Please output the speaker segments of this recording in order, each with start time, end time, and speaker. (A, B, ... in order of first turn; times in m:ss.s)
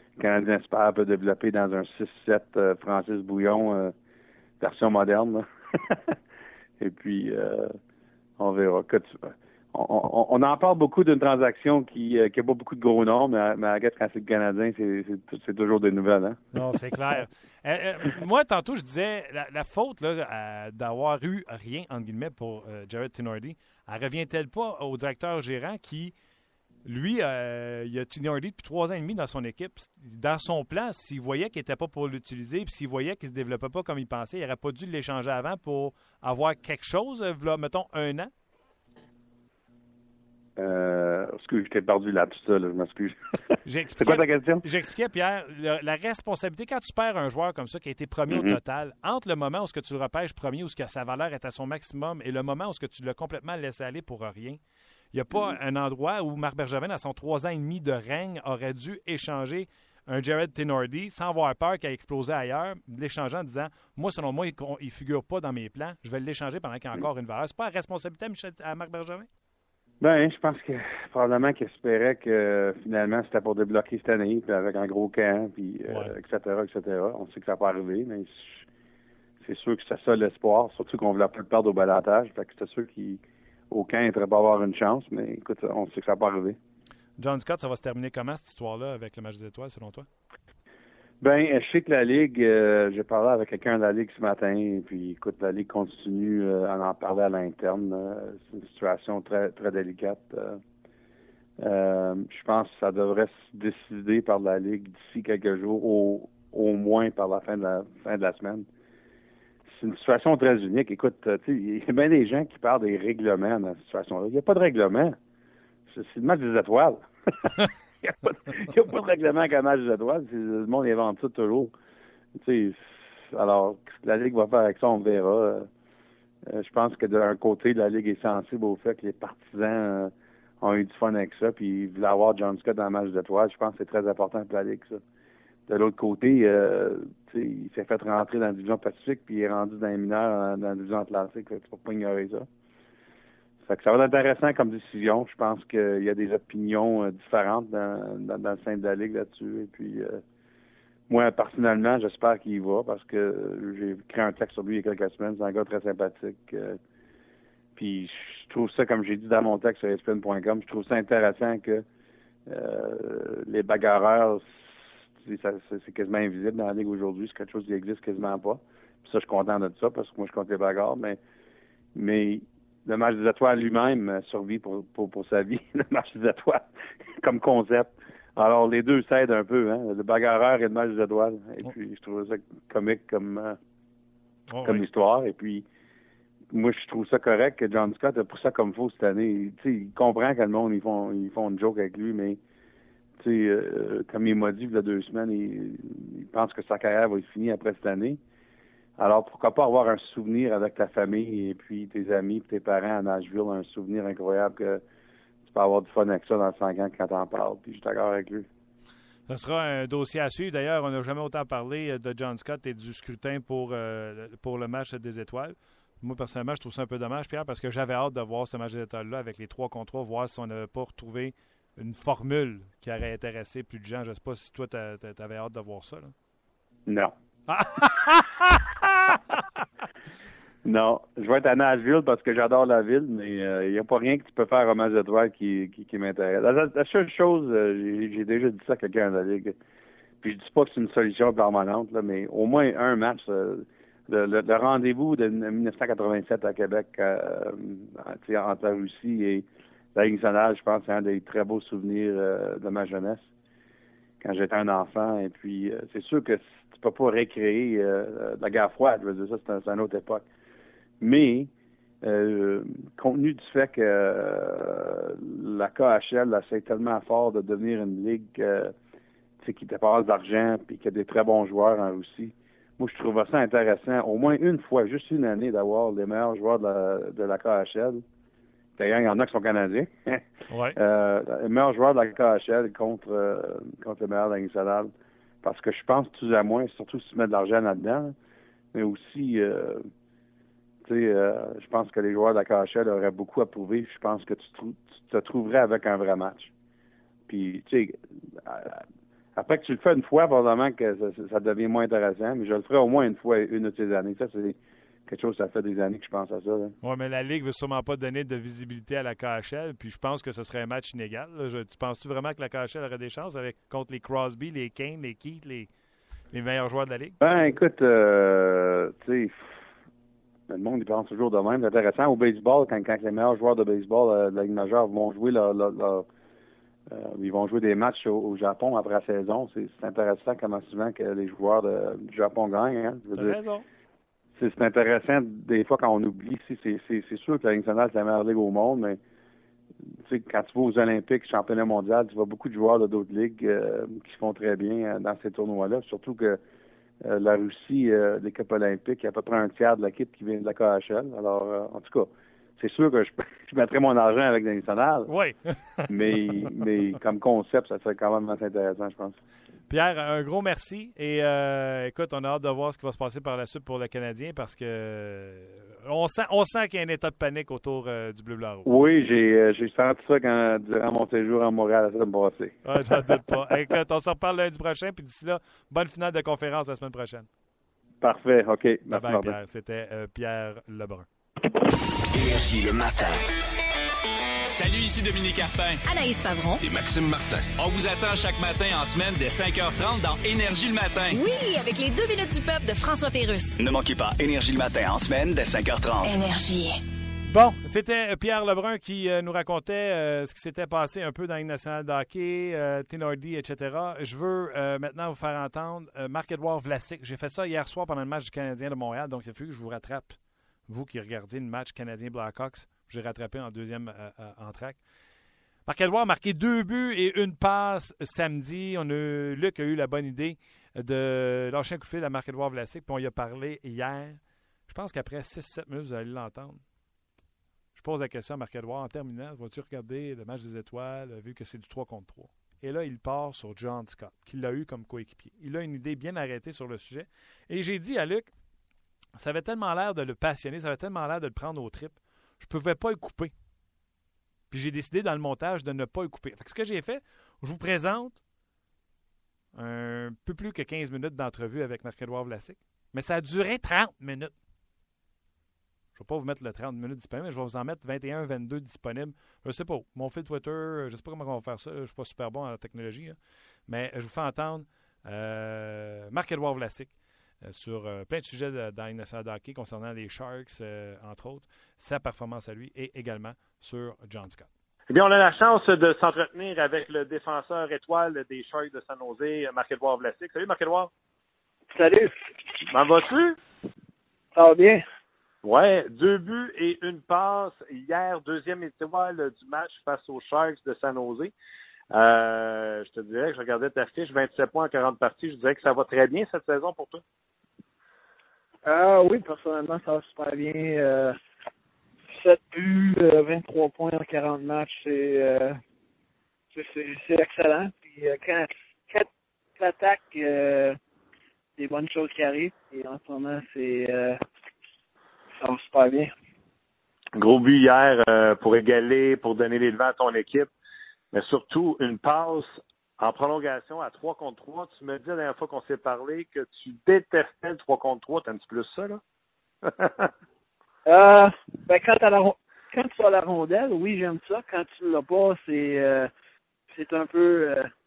0:00.2-0:03.9 A
0:04.6-0:06.1 A
0:06.8-0:07.8 A
0:08.4-0:16.5 A
0:16.5-0:26.1 B
0:26.8-0:38.3 B
0:40.6-0:43.2 A
0:43.6-0:54.6 B
0:44.0-0:44.6 A
0:48.3-0:48.6 A
0:55.1-1:09.3 B
1:10.0-1:18.6 A
1:15.9-1:16.1 B
1:19.4-1:26.6 A
1:27.2-1:30.1 B
1:31.2-1:40.6 A
1:41.6-1:48.7 A
1:49.6-1:55.2 A
1:55.9-2:01.7 A
2:02.3-2:05.7 A
2:06.4-2:15.0 A
2:15.7-2:22.5 A
2:23.6-2:30.2 A
2:31.1-2:36.8 A
2:37.8-2:41.8 A
2:42.4-2:51.2 A
2:51.9-3:03.6 A
3:04.5-3:04.9 B
3:04.6-3:05.6 A
3:06.5-3:12.4 A
3:13.2-3:18.2 A
3:19.0-3:24.8 A
3:25.5-3:28.5 A
3:29.3-3:46.1 B
3:46.8-3:47.1 A
3:47.5-3:49.2 B
3:50.6-3:59.6 A
4:00.2-4:13.3 A
4:14.2-4:20.2 A
4:21.0-4:21.5 A
4:22.0-4:28.7 A
4:29.4-4:38.0 A
4:38.8-4:44.9 A
4:40.5-4:40.8 B
4:45.4-4:48.2 A
4:48.7-4:49.9 A
4:50.8-4:56.5 A
4:57.3-4:58.8 A
4:59.3-5:06.7 A
5:06.8-5:15.7 B
5:16.3-5:17.2 B
5:17.2-5:19.5 A
5:20.5-5:26.0 A
5:26.9-5:33.4 A
5:33.1-5:33.6 B
5:34.4-5:39.0 A
5:40.0-5:46.4 A
5:47.0-5:55.1 A
5:55.1-5:55.9 B
5:55.9-5:59.2 A
5:59.7-6:08.7 B
6:08.6-6:13.3 A
6:12.6-6:17.3 B
6:18.0-6:19.4 A
6:18.9-6:21.0 B
6:22.1-6:23.2 C
6:24.5-6:25.8 D
6:25.8-6:26.6 E
6:26.6-6:31.2 D
6:31.1-6:33.6 E
6:33.6-6:36.2 C
6:36.0-6:36.8 E
6:37.3-6:54.8 B
6:55.6-7:06.6 B
7:07.7-7:18.3 B
7:19.1-7:23.3 B
7:24.5-7:28.2 B
7:29.5-7:34.3 B
7:36.0-7:54.5 B
7:54.9-8:00.9 F
8:01.7-8:02.1 G
8:02.7-8:03.4 F
8:04.3-8:04.8 G
8:05.4-8:11.3 F
8:11.9-8:17.0 F
8:18.6-8:21.2 G
8:22.1-8:25.6 G
8:26.5-8:30.8 G
8:31.6-8:34.2 G
8:35.4-8:36.1 G
8:37.1-8:40.5 F
8:41.1-8:49.0 F
8:49.6-8:50.1 F
8:50.8-8:56.1 G
8:56.7-8:57.7 G